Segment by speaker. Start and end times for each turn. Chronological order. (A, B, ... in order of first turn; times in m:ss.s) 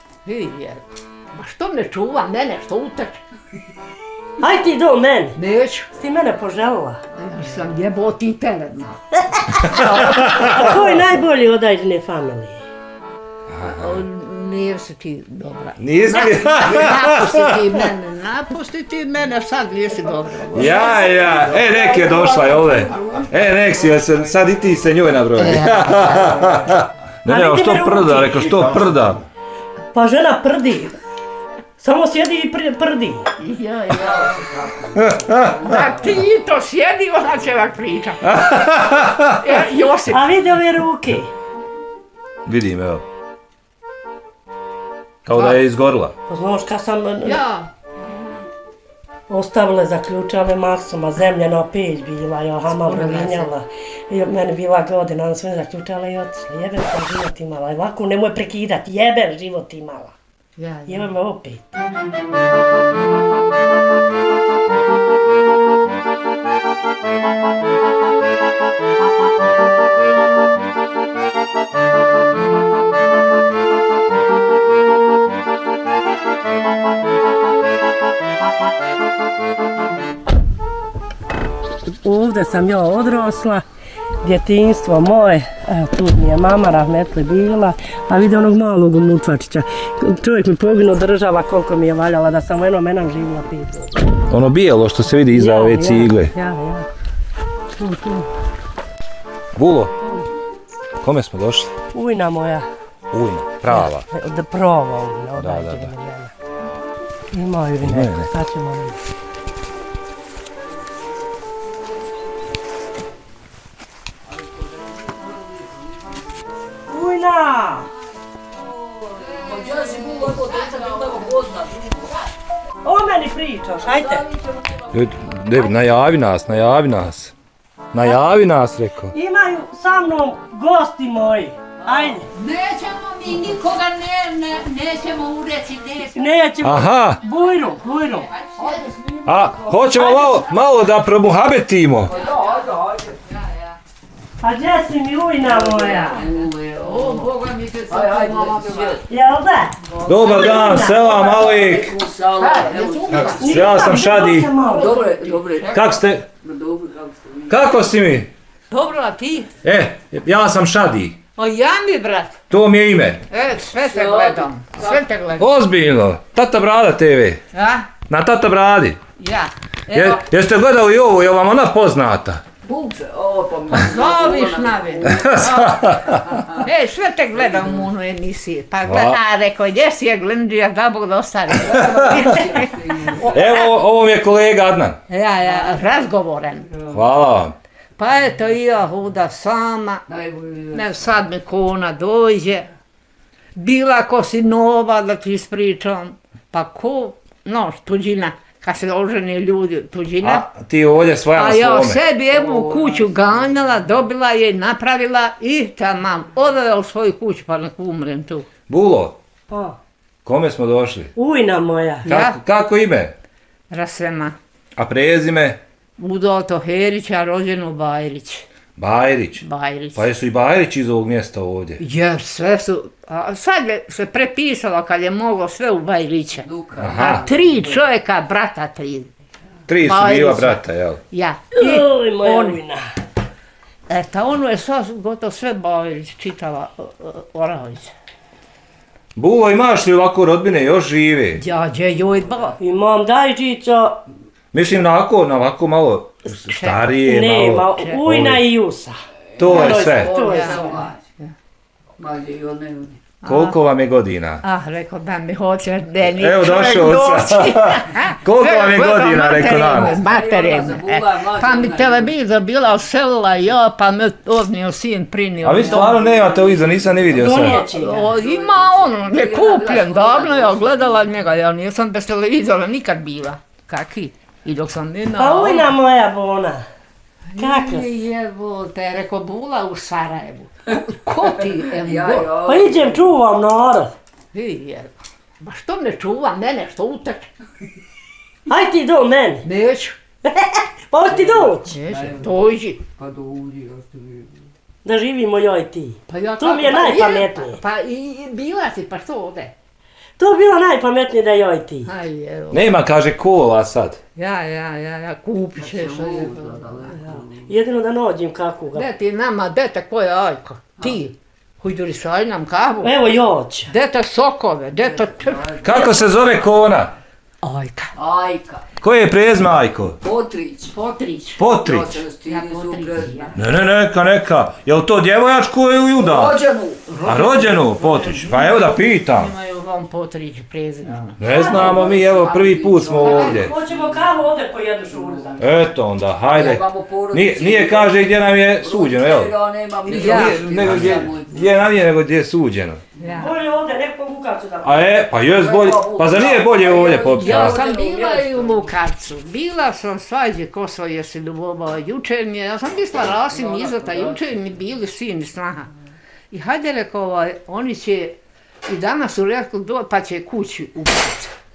0:00.2-0:03.2 A
0:04.4-0:05.4 B
0:05.4-0:05.9 A
0:05.9-0:07.0 B
0:07.2-0:09.0 A
0:09.5-0:12.6 B
0:09.6-0:10.7 C
0:13.5-0:14.0 C
0:13.6-0:23.2 A
0:15.8-0:17.6 C
0:20.5-0:29.2 C
0:21.7-0:23.2 D
0:25.4-0:26.5 A
0:27.2-0:28.6 B
0:29.9-0:30.9 B
0:31.8-0:33.2 B
0:33.4-0:34.4 A
0:33.9-0:36.2 D
0:35.0-0:35.5 C
0:35.6-0:38.4 A
0:38.2-0:39.4 C
0:39.3-0:40.3 A
0:40.1-0:41.3 B
0:42.4-0:43.0 C
0:45.2-0:46.1 C
0:46.3-0:47.4 B
0:47.2-0:47.7 A
0:49.3-1:00.1 B
0:52.7-0:53.5 A
1:00.6-1:01.1 A
1:00.9-1:01.7 B
1:22.0-1:23.6 B
1:24.2-1:34.2 B
1:34.3-1:36.3 C
1:35.3-1:36.9 B
1:37.8-1:38.2 B
1:39.5-1:39.9 C
1:41.0-1:41.7 C
1:41.9-1:42.7 B
1:43.1-1:44.0 C
1:43.7-1:46.3 B
1:45.4-1:45.9 C
1:47.3-1:49.0 B
1:47.8-1:48.3 C
1:54.2-1:56.6 D
1:56.9-1:57.9 B
1:59.2-2:02.1 D
1:59.4-2:02.2 A
2:02.8-2:04.2 B
2:03.8-2:05.0 D
2:04.9-2:07.3 C
2:07.9-2:09.1 C
2:09.1-2:12.3 B
2:12.3-2:16.2 A
2:16.1-2:18.3 B
2:16.6-2:17.2 C
2:18.4-2:18.9 A
2:18.6-2:20.2 D
2:19.2-2:22.1 C
2:20.0-2:20.4 A
2:22.0-2:23.2 D
2:22.1-2:22.6 A
2:23.2-2:23.8 A
2:24.4-2:26.3 B
2:25.6-2:27.3 D
2:25.7-2:26.2 A
2:26.8-2:29.0 A
2:27.9-2:29.0 D
2:29.1-2:31.6 B
2:29.8-2:30.9 A
2:30.0-2:31.9 C
2:31.1-2:33.6 D
2:32.4-2:33.6 A
2:33.2-2:34.5 C
2:33.4-2:35.0 B
2:34.6-2:35.8 A
2:34.7-2:37.7 D
2:35.7-2:36.2 C
2:37.5-2:38.3 C
2:38.7-2:39.5 A
2:39.6-2:41.2 C
2:41.4-2:42.4 A
2:42.5-2:43.2 C
2:43.3-2:45.5 A
2:43.8-2:45.0 D
2:45.4-2:47.4 C
2:47.5-2:47.9 A
2:48.1-2:49.0 C
2:49.2-2:50.2 A
2:49.9-2:52.4 C
2:52.6-2:56.7 D
2:53.7-2:56.0 A
2:55.1-2:56.2 C
2:56.5-3:03.6 A
2:57.5-2:57.7 D
2:58.8-2:59.2 C
3:01.6-3:03.5 D
3:01.7-3:02.2 C
3:03.3-3:05.0 C
3:05.1-3:06.7 A
3:06.9-3:07.5 C
3:08.0-3:10.0 A
3:10.1-3:11.0 D
3:10.7-3:12.7 A
3:13.5-3:20.4 A
3:20.2-3:22.0 C
3:21.3-3:28.5 A
3:22.3-3:24.0 D
3:28.7-3:29.2 C
3:29.5-3:29.8 B
3:30.2-3:31.1 C
3:31.2-3:32.1 B
3:32.0-3:32.4 A
3:32.0-3:33.1 C
3:33.7-3:34.4 A
3:34.8-3:35.6 C
3:36.0-3:38.4 A
3:38.8-3:39.4 C
3:39.4-3:40.0 A
3:39.9-3:41.8 C
3:41.8-3:49.1 A
3:46.4-3:47.8 D
3:46.8-3:47.2 C
3:49.7-3:51.0 C
3:49.8-3:52.6 A
3:51.5-3:52.8 B
3:53.9-3:57.9 A
3:59.2-4:01.4 C
4:01.4-4:02.6 A
4:02.6-4:04.0 B
4:04.5-4:08.4 C
4:06.3-4:06.8 A
4:07.0-4:10.8 B
4:07.7-4:08.0 A
4:09.4-4:10.1 C
4:09.4-4:11.0 D
4:10.2-4:11.3 A
4:12.0-4:13.0 D
4:13.2-4:13.6 A
4:13.2-4:14.4 C
4:14.4-4:26.0 A
4:16.1-4:20.0 C
4:19.6-4:22.1 D
4:25.4-4:27.6 C
4:25.7-4:31.1 D
4:27.1-4:28.1 B
4:27.5-4:35.7 A
4:35.2-4:36.6 B
4:37.3-4:42.3 A
4:37.4-4:37.9 B
4:41.4-4:43.1 D
4:42.4-4:43.9 B
4:44.3-4:47.3 A
4:48.5-4:49.4 B
4:49.4-4:50.0 A
4:50.2-4:51.8 B
4:51.7-4:52.8 A
4:51.9-4:54.4 D
4:54.8-4:57.6 B
4:56.1-4:59.5 A
5:00.2-5:01.9 B
5:01.8-5:02.8 A
5:02.5-5:04.0 C
5:04.1-5:06.9 A
5:05.6-5:07.5 D
5:06.9-5:08.9 B
5:08.7-5:12.9 A
5:12.8-5:13.7 B
5:13.7-5:15.9 A
5:14.8-5:16.5 D
5:15.6-5:16.9 C
5:17.4-5:17.9 A
5:18.0-5:18.6 D
5:18.8-5:20.0 C
5:20.0-5:20.7 D
5:20.7-5:21.4 A
5:21.4-5:22.0 C
5:21.5-5:23.4 D
5:22.2-5:23.3 A
5:23.4-5:26.4 C
5:26.0-5:26.8 D
5:26.9-5:31.2 A
5:27.0-5:29.3 C
5:31.2-5:33.5 C
5:31.3-5:31.9 B
5:31.3-5:34.1 D
5:33.0-5:33.4 A
5:33.2-5:35.5 B
5:34.9-5:35.3 D
5:35.4-5:39.3 C
5:36.2-5:41.6 D
5:39.8-5:42.8 C
5:39.9-5:40.6 A
5:43.0-5:43.3 A
5:43.1-5:44.8 B
5:44.6-5:47.6 C
5:45.3-5:48.7 D
5:47.1-5:55.7 A
5:53.3-5:54.5 D
5:56.3-6:01.3 A